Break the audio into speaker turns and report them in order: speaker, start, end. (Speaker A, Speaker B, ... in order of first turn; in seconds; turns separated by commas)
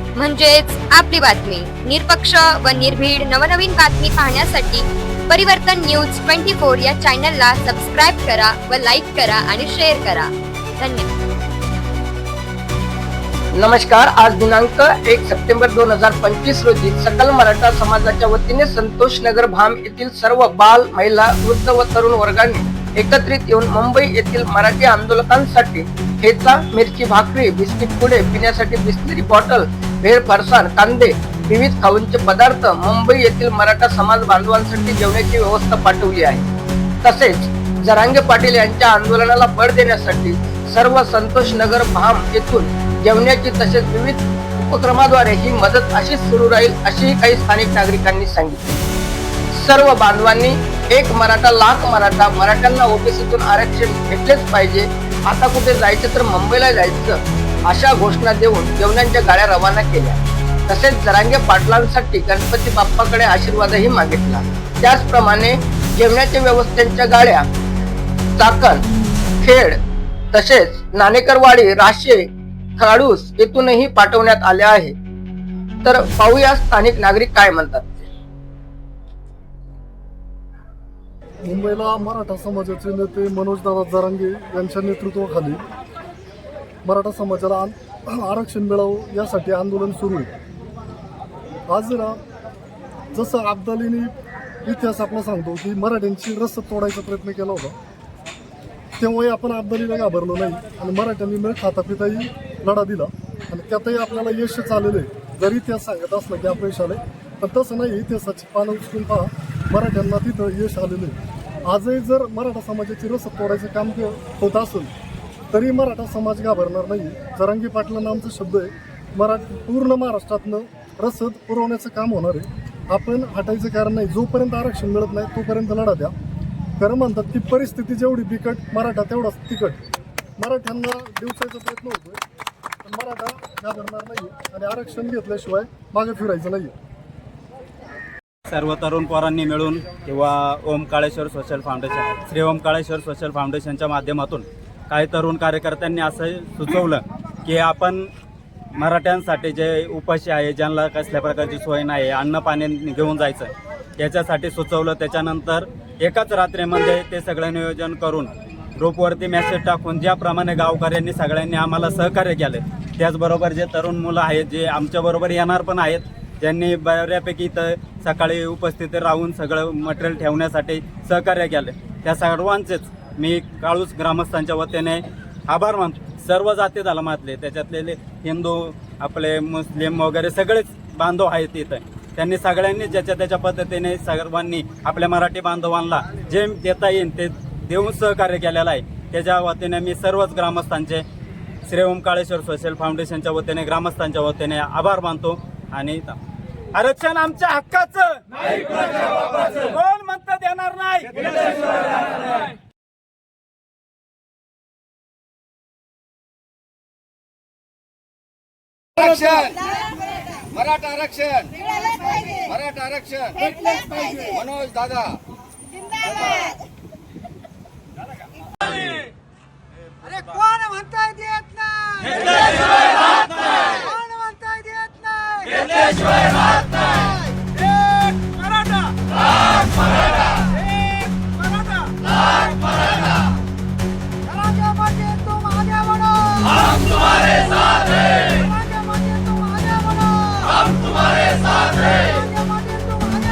Speaker A: 0.1-11.1, Speaker B: 13.5-36.4, Speaker B: 37.0-48.6, Speaker B: 49.5-67.5, Speaker B: 68.4-68.8, Speaker B: 69.4-69.8, Speaker B: 70.3-72.2, Speaker B: 72.8-74.9, Speaker B: 75.8-78.0, Speaker C: 81.4-85.6, Speaker C: 86.8-90.3, Speaker C: 91.7-92.2, Speaker C: 93.1-94.1, Speaker C: 94.6-97.8, Speaker C: 99.0-111.2, Speaker C: 111.7-114.9, Speaker C: 115.5-126.1, Speaker C: 126.8-129.8, Speaker C: 130.4-132.2, Speaker C: 132.8-136.7, Speaker D: 138.5-148.1, Speaker D: 148.8-191.0, Speaker D: 191.7-196.2, Speaker D: 196.7-201.8, Speaker E: 209.0-209.6, Speaker E: 210.7-211.7, Speaker E: 212.2-215.2, Speaker F: 220.2-221.0, Speaker F: 221.8-222.2, Speaker F: 223.8-225.6, Speaker B: 234.4-235.9, Speaker F: 234.6-235.1, Speaker F: 236.3-238.3, Speaker B: 238.4-238.9, Speaker B: 239.5-239.8, Speaker F: 240.2-242.1, Speaker B: 242.5-243.2